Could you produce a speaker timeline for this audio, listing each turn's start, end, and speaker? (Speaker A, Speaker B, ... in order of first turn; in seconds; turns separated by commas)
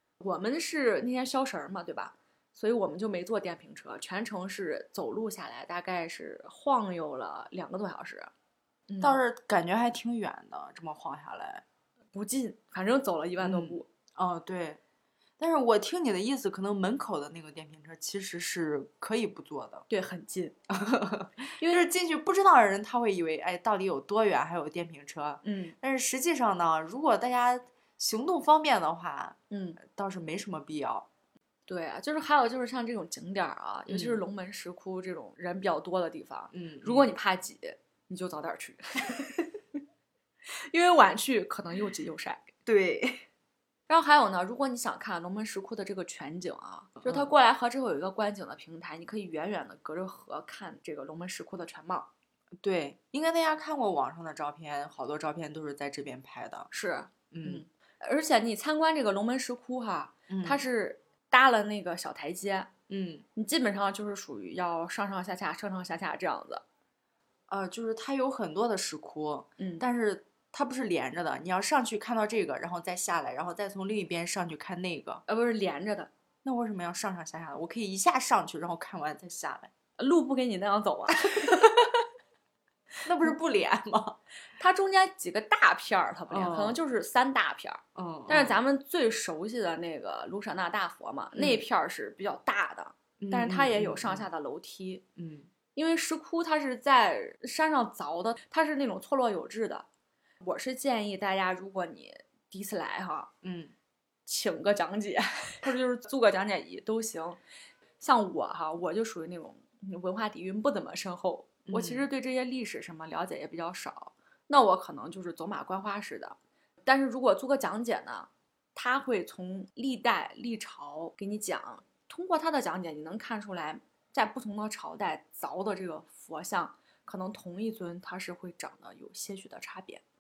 Speaker A: 0.2-8.3, Speaker A: 8.9-9.2, Speaker B: 9.0-11.6, Speaker A: 12.1-13.8, Speaker B: 13.4-14.8, Speaker B: 15.4-19.8, Speaker A: 19.9-20.6, Speaker B: 20.7-31.1, Speaker A: 21.6-21.9, Speaker A: 25.4-25.8, Speaker A: 29.5-29.8, Speaker A: 31.7-39.5, Speaker B: 33.9-34.2, Speaker B: 36.5-37.1, Speaker A: 40.7-42.5, Speaker B: 42.6-43.2, Speaker A: 43.9-52.1, Speaker B: 52.6-56.7, Speaker A: 56.7-62.7, Speaker B: 57.3-57.6, Speaker B: 60.3-60.6, Speaker B: 62.9-63.2, Speaker A: 63.4-66.6, Speaker B: 67.5-75.2, Speaker A: 69.6-69.8, Speaker A: 75.3-76.1, Speaker B: 76.4-79.7, Speaker A: 80.0-81.8, Speaker B: 81.3-81.7, Speaker B: 83.0-84.2, Speaker A: 84.6-95.0, Speaker B: 86.3-86.8, Speaker B: 87.9-88.6, Speaker B: 91.3-91.6, Speaker B: 93.2-94.2, Speaker B: 95.2-95.5, Speaker A: 95.7-99.8, Speaker A: 100.4-103.3, Speaker B: 103.4-103.7, Speaker A: 104.2-107.4, Speaker A: 108.0-130.0, Speaker B: 111.7-112.1